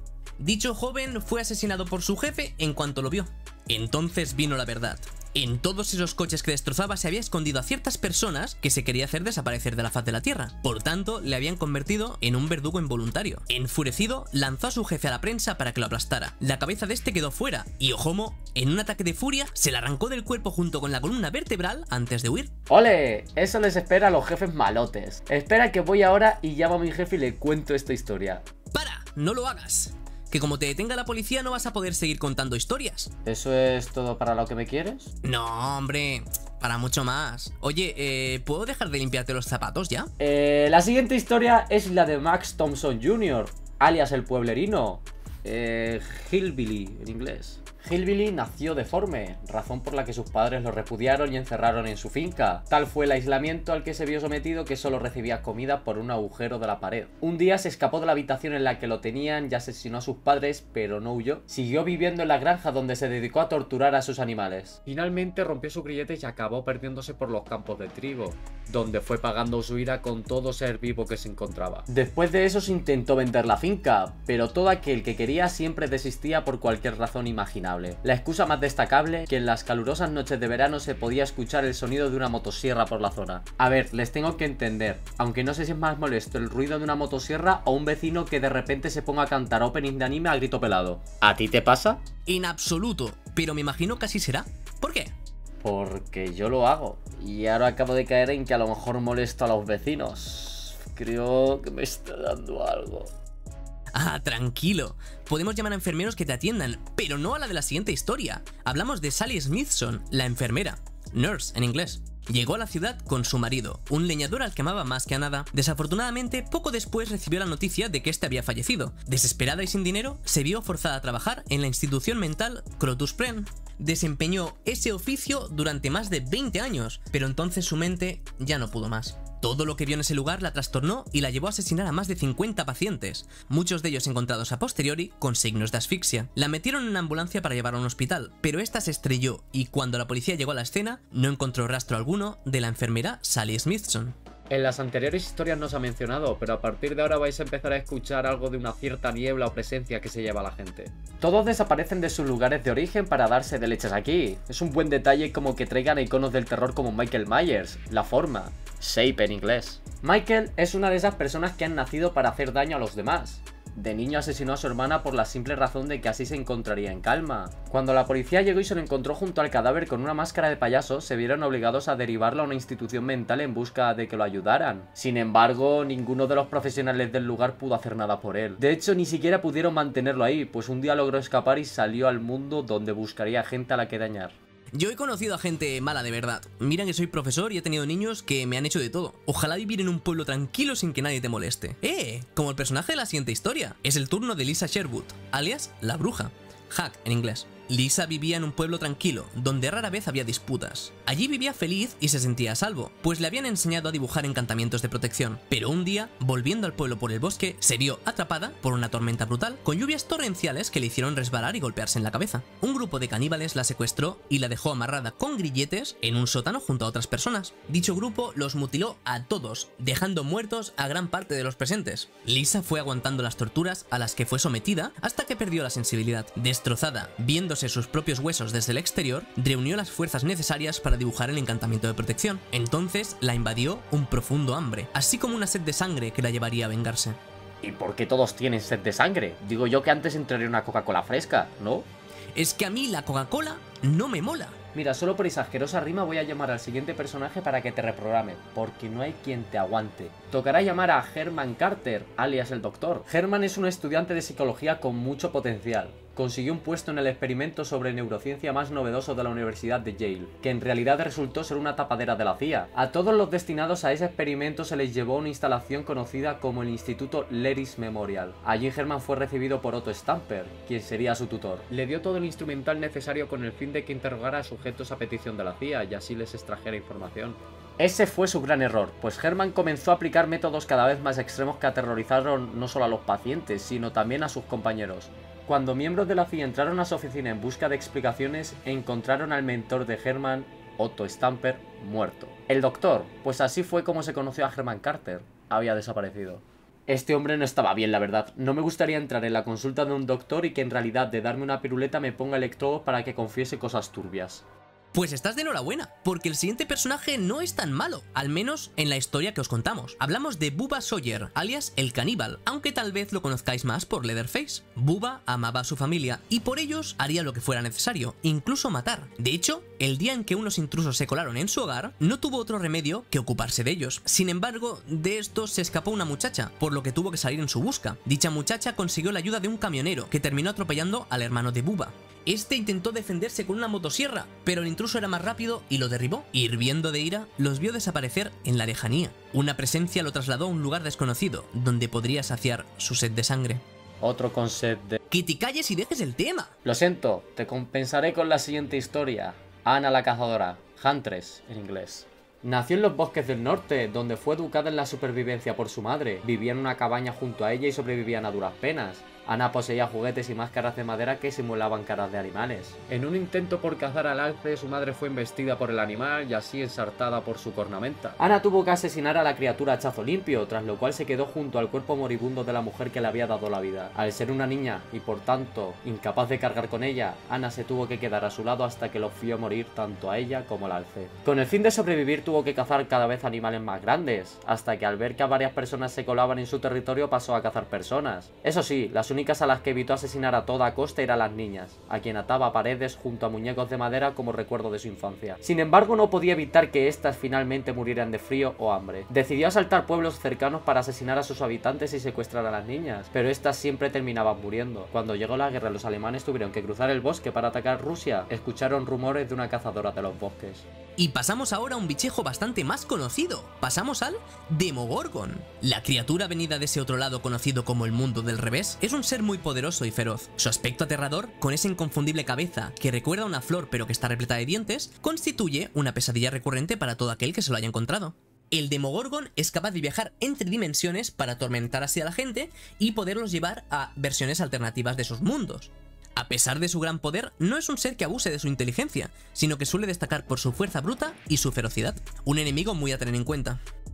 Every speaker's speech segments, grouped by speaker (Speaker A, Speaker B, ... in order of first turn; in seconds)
Speaker A: 0.4-22.5, 28.7-33.1, 35.2-40.1, 92.3-95.1, 104.0-144.2, 184.8-237.2, 242.3-244.6, 304.9-343.6, 345.1-346.5, 411.0-443.6
Speaker B: 22.7-28.4, 33.2-35.1, 40.2-92.0, 95.6-103.1, 144.5-184.3, 237.6-241.9, 244.7-304.4, 344.0-345.0, 346.6-410.7